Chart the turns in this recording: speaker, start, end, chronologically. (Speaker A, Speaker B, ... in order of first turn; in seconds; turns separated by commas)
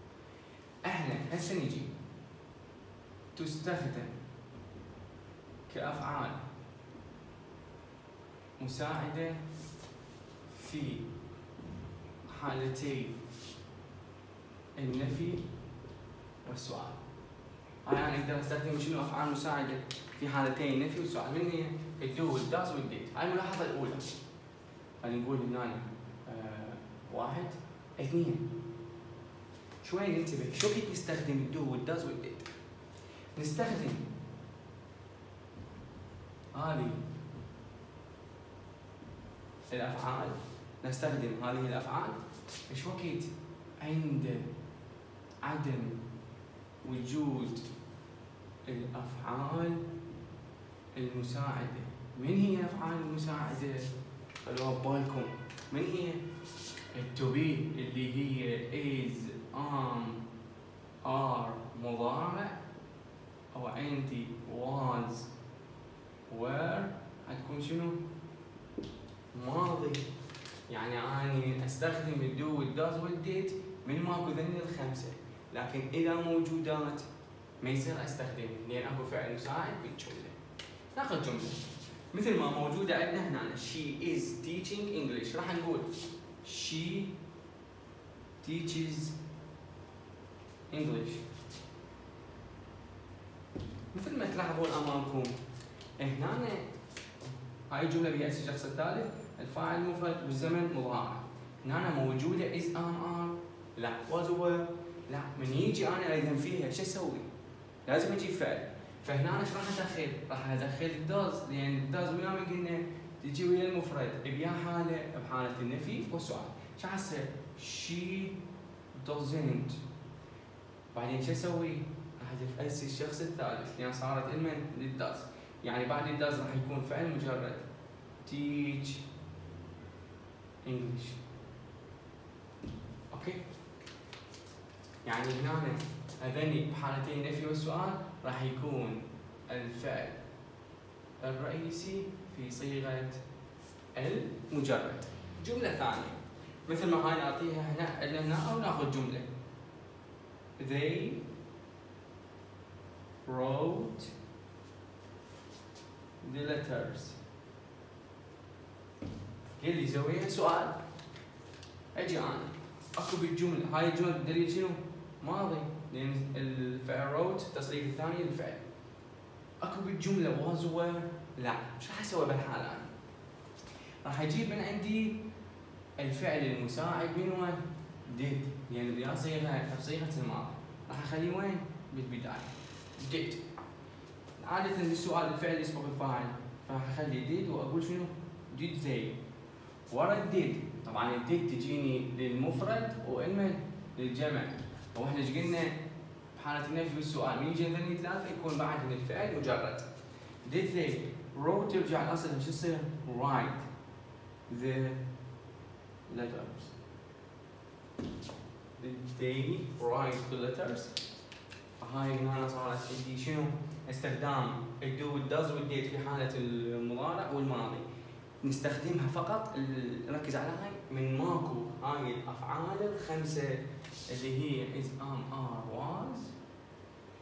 Speaker A: 0.8-1.9, Speaker A: 3.4-4.2, Speaker A: 5.7-6.4, Speaker A: 8.6-9.4, Speaker A: 10.5-11.1, Speaker A: 12.2-13.2, Speaker A: 14.8-15.4, Speaker A: 16.4-17.0, Speaker A: 17.8-24.1, Speaker A: 25.0-28.6, Speaker A: 29.8-32.5, Speaker A: 33.4-34.1, Speaker A: 36.5-37.0, Speaker A: 39.7-44.5, Speaker A: 45.4-46.0, Speaker A: 46.8-47.7, Speaker A: 48.6-49.9, Speaker A: 50.9-53.9, Speaker A: 54.4-56.2, Speaker A: 56.9-60.3, Speaker A: 61.0-62.6, Speaker A: 63.5-65.3, Speaker A: 66.3-68.0, Speaker A: 69.3-70.1, Speaker A: 70.7-77.1, Speaker A: 77.6-80.3, Speaker A: 80.9-87.2, Speaker A: 88.4-89.2, Speaker A: 90.7-91.2, Speaker A: 93.9-95.4, Speaker A: 96.0-96.7, Speaker A: 97.7-107.3, Speaker A: 107.9-118.4, Speaker A: 119.0-119.8, Speaker A: 120.9-127.7, Speaker A: 128.2-129.0, Speaker A: 130.6-131.2, Speaker A: 133.1-133.4, Speaker A: 135.1-140.2, Speaker A: 141.2-143.2, Speaker A: 143.9-149.3, Speaker A: 150.6-151.2, Speaker A: 153.2-154.1, Speaker A: 156.2-157.2, Speaker A: 159.6-160.8, Speaker A: 161.9-168.6, Speaker A: 169.6-172.9, Speaker A: 174.0-175.2, Speaker A: 176.0-183.4, Speaker A: 184.4-189.2, Speaker A: 189.9-195.8, Speaker A: 196.3-199.9, Speaker A: 200.4-203.7, Speaker A: 204.5-205.0, Speaker A: 206.1-206.7, Speaker A: 208.8-210.9, Speaker A: 211.8-217.8, Speaker A: 218.4-226.3